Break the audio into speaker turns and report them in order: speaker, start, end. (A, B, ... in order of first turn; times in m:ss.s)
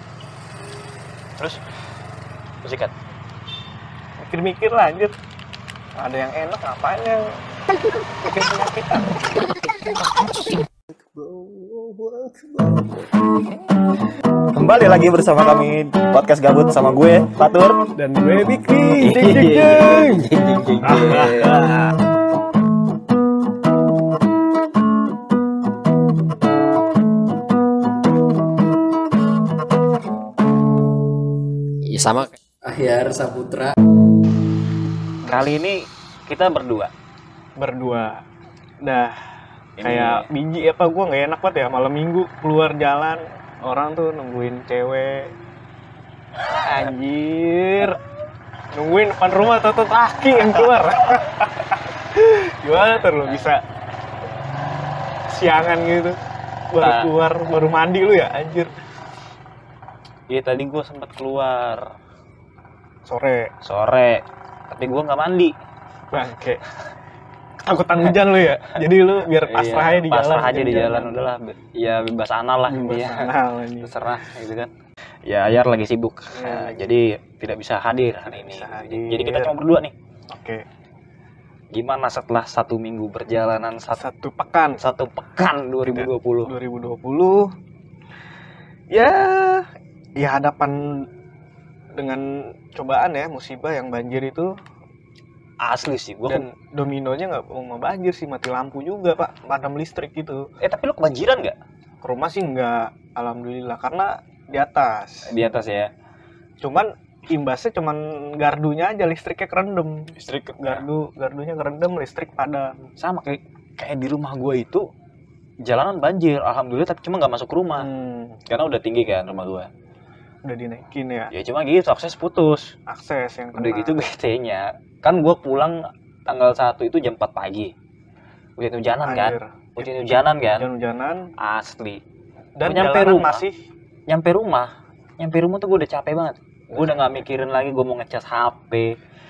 0:02.6-0:02.9 A
0:04.2-0:05.1 B
0:06.0-0:07.2 B
0:08.2-0:09.2 B
0:11.2-0:12.4 B
0:14.5-0:17.8 A
0:17.9-0:20.3 B
0:19.0-0:22.0 A
0:20.8-0:21.7 B
0:31.8-0:33.8 C
0:35.3-0:36.9 A
0:37.6-0:38.2 B
0:38.8-0:39.2 B
0:39.8-0:40.3 A
0:39.8-0:45.3 B
0:46.6-0:48.0 B
0:48.7-0:53.6 B
0:53.0-0:53.5 A
0:55.3-0:56.2 B
0:56.7-0:58.8 B
0:56.8-0:57.1 A
1:00.3-1:02.0 A
1:03.1-1:03.5 B
1:03.6-1:05.6 A
1:06.1-1:06.6 B
1:07.6-1:11.3 B
1:09.4-1:14.7 A
1:12.7-1:14.3 B
1:15.2-1:20.0 A
1:16.3-1:16.8 B
1:18.3-1:19.5 B
1:20.3-1:20.6 B
1:21.7-1:24.0 A
1:23.9-1:24.8 B
1:24.8-1:26.5 A
1:25.9-1:27.5 B
1:28.9-1:31.1 B
1:31.9-1:34.5 B
1:35.6-1:36.4 A
1:36.3-1:40.4 B
1:40.6-1:41.6 A
1:42.0-1:45.3 B
1:45.2-1:45.9 A
1:46.6-1:52.8 B
1:50.1-1:50.8 A
1:53.0-1:54.9 A
1:55.6-1:57.9 A
1:57.8-1:58.4 B
1:58.5-1:59.7 A
2:00.4-2:01.3 B
2:01.3-2:02.8 A
2:02.9-2:04.0 B
2:03.5-2:07.7 A
2:08.6-2:10.7 A
2:09.0-2:09.9 B
2:10.5-2:11.3 B
2:11.4-2:12.0 A
2:12.6-2:13.6 B
2:12.6-2:13.4 A
2:14.1-2:19.0 A